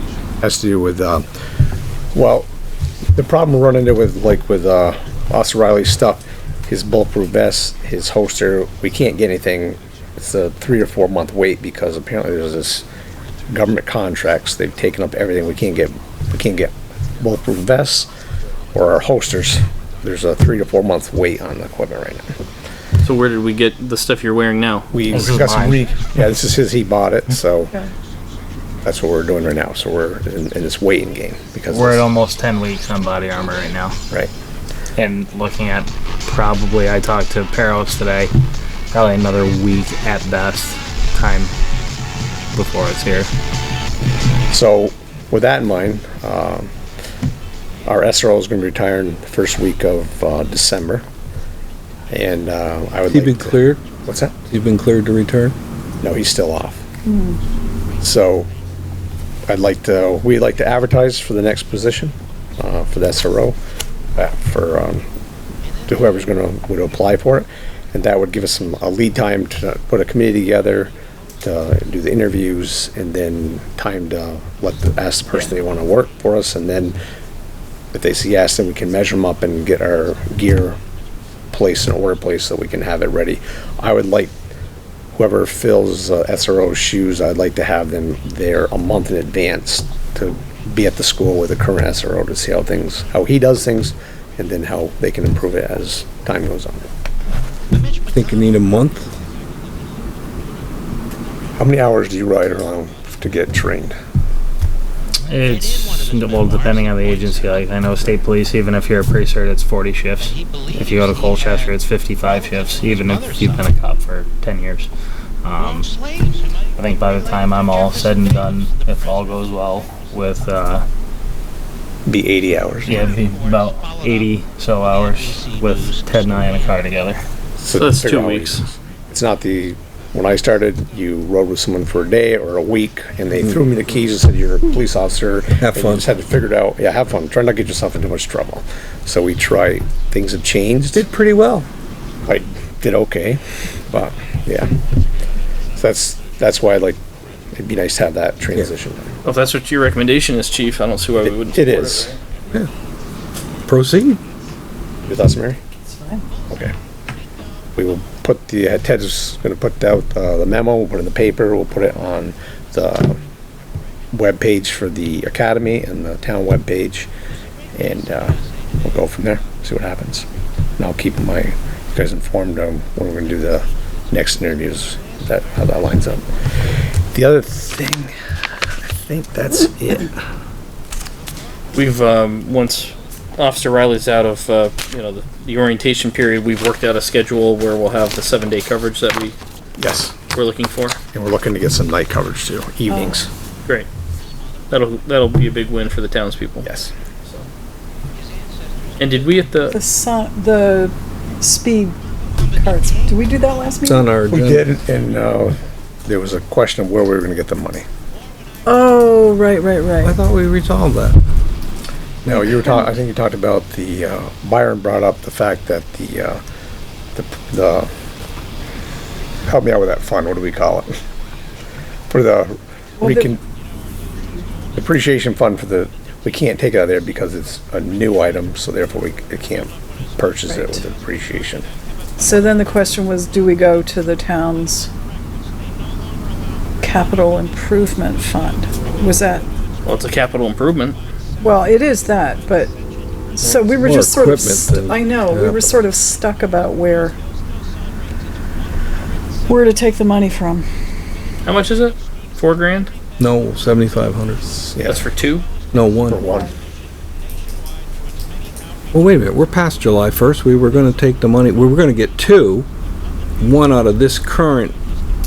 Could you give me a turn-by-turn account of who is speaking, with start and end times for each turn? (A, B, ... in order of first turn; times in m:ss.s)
0:00.4-0:01.3 A
0:02.1-0:02.5 A
0:03.2-0:12.8 A
0:13.5-0:18.1 A
0:18.7-0:22.3 A
0:23.0-0:24.9 B
0:24.9-0:27.8 A
0:25.1-0:25.8 C
0:28.8-0:32.1 A
0:31.7-0:34.0 C
0:35.0-0:38.3 C
0:38.9-0:41.5 C
0:42.5-0:43.3 C
0:44.5-0:46.7 A
0:47.9-0:51.0 A
0:52.1-0:54.4 A
0:53.1-0:53.8 D
0:54.5-0:55.6 D
0:56.0-0:56.8 A
0:57.1-0:57.4 E
0:58.0-0:58.5 A
0:59.5-1:03.6 A
1:04.2-1:05.0 A
1:05.9-1:17.0 A
1:17.9-1:20.8 A
1:21.5-1:24.3 A
1:25.1-1:36.9 A
1:38.1-1:39.1 D
1:41.6-1:44.0 A
1:45.3-1:54.9 C
1:55.4-1:55.9 C
1:56.8-2:00.9 C
2:02.1-2:03.1 A
2:02.8-2:07.2 C
2:07.6-2:21.0 A
2:07.8-2:08.6 B
2:15.6-2:16.1 D
2:20.9-2:21.7 D
2:22.3-2:24.7 A
2:25.8-2:27.0 A
2:27.5-2:29.2 A
2:29.2-2:32.2 B
2:31.2-2:32.2 A
2:33.7-2:34.2 D
2:35.1-2:35.6 A
2:35.9-2:36.2 E
2:37.8-2:43.2 A
2:44.1-2:47.1 A
2:47.8-2:50.3 A
2:50.8-2:56.2 A
2:57.1-2:58.1 A
2:58.9-3:00.2 A
3:01.7-3:09.4 B
3:09.8-3:10.2 A
3:10.3-3:11.0 B
3:11.1-3:13.3 A
3:14.7-3:16.7 B
3:16.6-3:16.9 A
3:19.0-3:19.8 B
3:19.7-3:22.0 E
3:22.5-3:24.1 E
3:23.8-3:24.7 D
3:24.3-3:27.9 A
3:28.7-3:30.2 E
3:30.0-3:31.2 D
3:32.2-3:36.4 A
3:37.2-3:37.9 A
3:39.5-3:41.0 A
3:42.1-3:43.4 A
3:43.0-3:43.3 E
3:44.8-3:51.6 A
3:50.5-3:50.7 E
3:52.2-3:54.9 E
3:56.8-3:59.4 E
3:59.8-4:01.0 B
4:01.4-4:02.7 E
4:03.3-4:07.2 E
4:03.8-4:05.7 D
4:09.5-4:10.7 E
4:11.4-4:12.9 B
4:13.2-4:14.4 D
4:14.5-4:15.0 A
4:14.9-4:15.5 B
4:15.7-4:16.2 D
4:16.1-4:16.5 A
4:16.2-4:16.5 E
4:18.9-4:22.7 D
4:23.4-4:24.8 D